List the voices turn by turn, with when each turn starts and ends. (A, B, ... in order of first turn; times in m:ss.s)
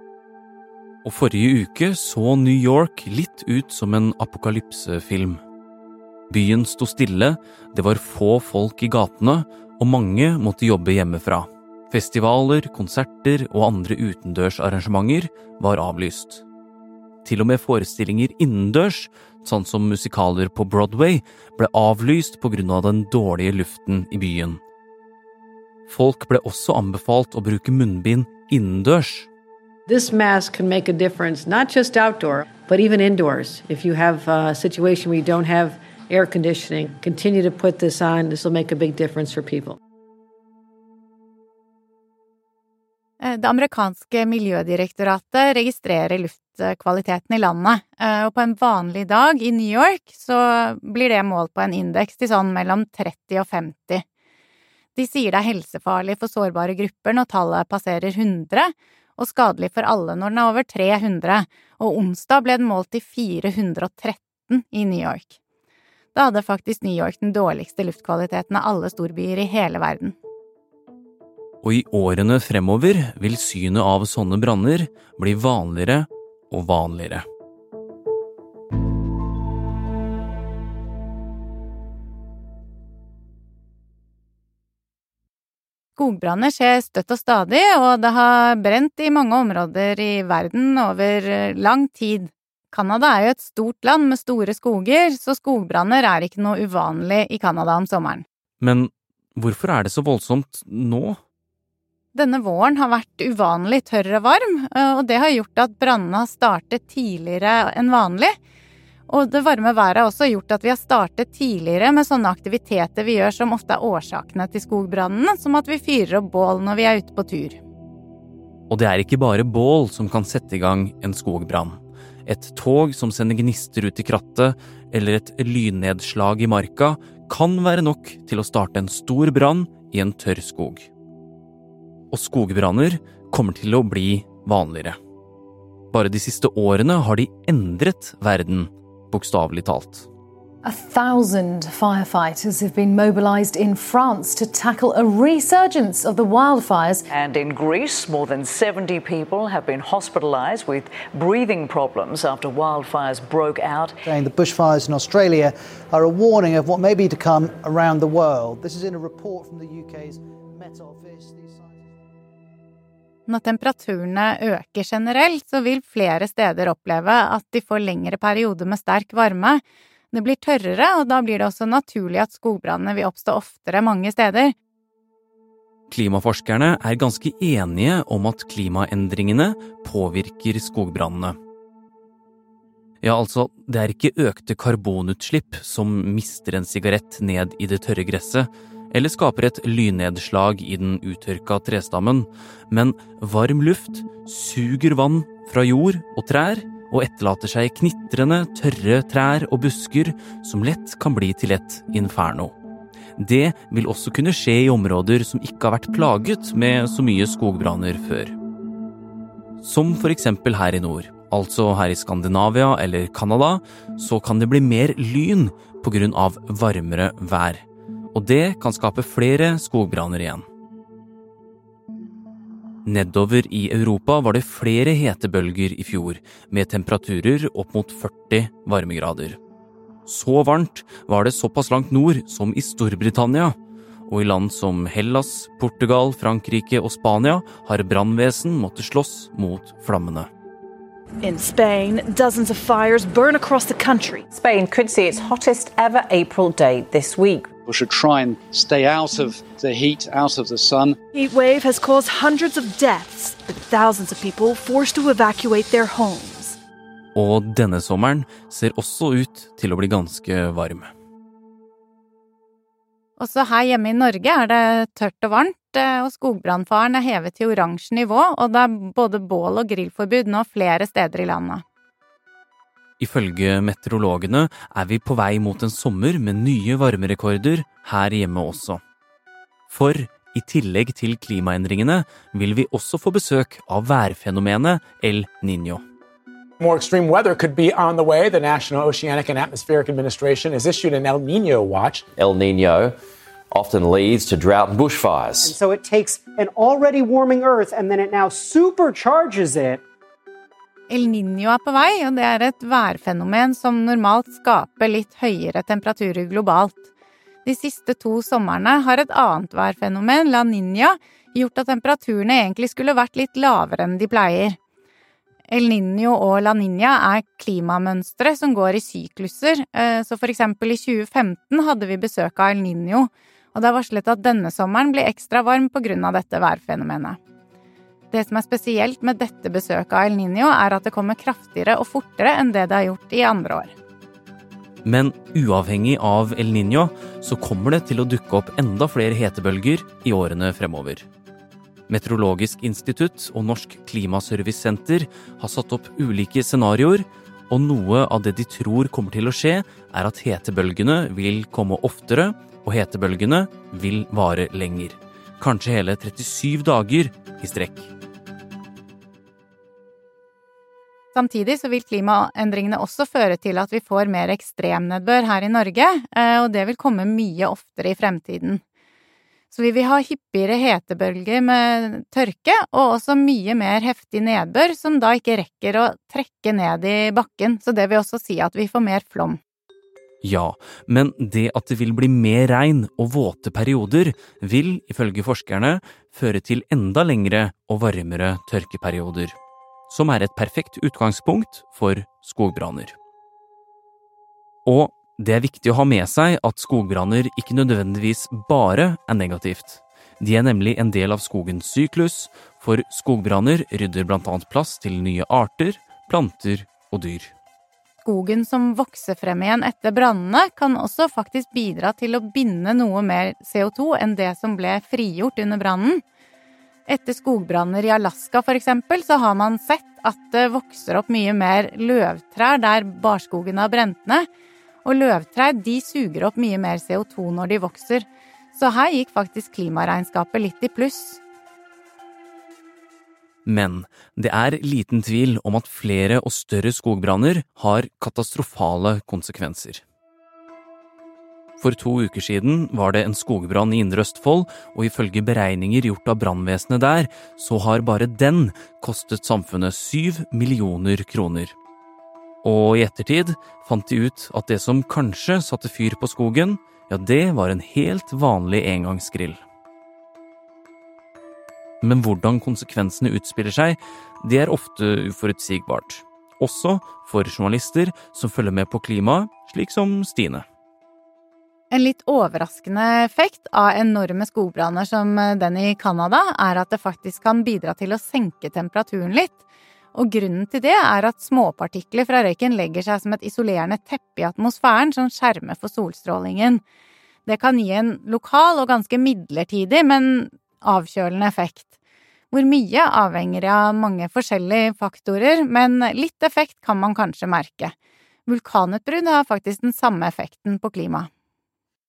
0:01.0-0:05.4 A
0:06.3-0:16.4 A
0:17.2-0:24.6 A
0:25.9-0:29.3 A
0:29.9-0:39.8 B
0:43.2-0:54.0 C
0:55.0-1:05.4 C
1:06.1-1:10.2 C
1:11.6-1:17.2 A
1:26.0-1:38.2 C
1:38.6-1:41.2 A
1:42.1-1:48.4 C
1:49.1-1:57.6 C
1:58.7-2:10.9 A
2:12.1-2:15.0 A
2:15.9-2:20.1 A
2:20.6-2:27.0 D
2:27.1-2:34.0 E
2:34.1-2:41.8 F
2:43.3-2:54.6 C
2:55.9-3:01.4 A
3:03.0-3:22.5 A
3:23.2-3:28.4 A
3:29.6-3:37.6 A
3:38.1-3:40.4 A
3:42.9-3:49.4 A
3:50.1-3:53.6 A
3:54.1-4:00.3 A
4:01.2-4:04.2 G
4:04.4-4:05.9 H
4:06.9-4:07.4 H
4:07.7-4:10.9 I
4:11.1-4:16.6 G
4:17.2-4:20.9 A
4:23.2-4:31.6 C
4:33.0-4:38.8 A
4:39.7-4:45.8 A
4:46.6-4:52.0 J
4:52.2-4:52.9 K
4:53.5-4:55.5 K
4:55.4-4:59.8 L
5:00.9-5:06.8 C
5:07.4-5:14.6 C
5:15.5-5:27.2 C
5:28.1-5:33.7 C
5:34.8-5:41.1 A
5:41.9-5:57.9 A
6:01.2-6:08.6 C
6:09.5-6:19.4 C
6:20.2-6:29.4 A
6:29.9-6:33.0 A
6:34.7-6:47.3 A
6:48.0-6:56.0 C
6:56.9-7:04.3 C
7:04.8-7:11.2 C
7:13.5-7:19.8 A
7:21.6-7:31.6 A
7:32.4-7:39.4 A
7:41.8-7:50.4 A
7:51.7-7:59.4 C
7:59.9-8:06.6 C
8:07.3-8:11.6 C
8:12.3-8:17.7 C
8:18.3-8:21.1 C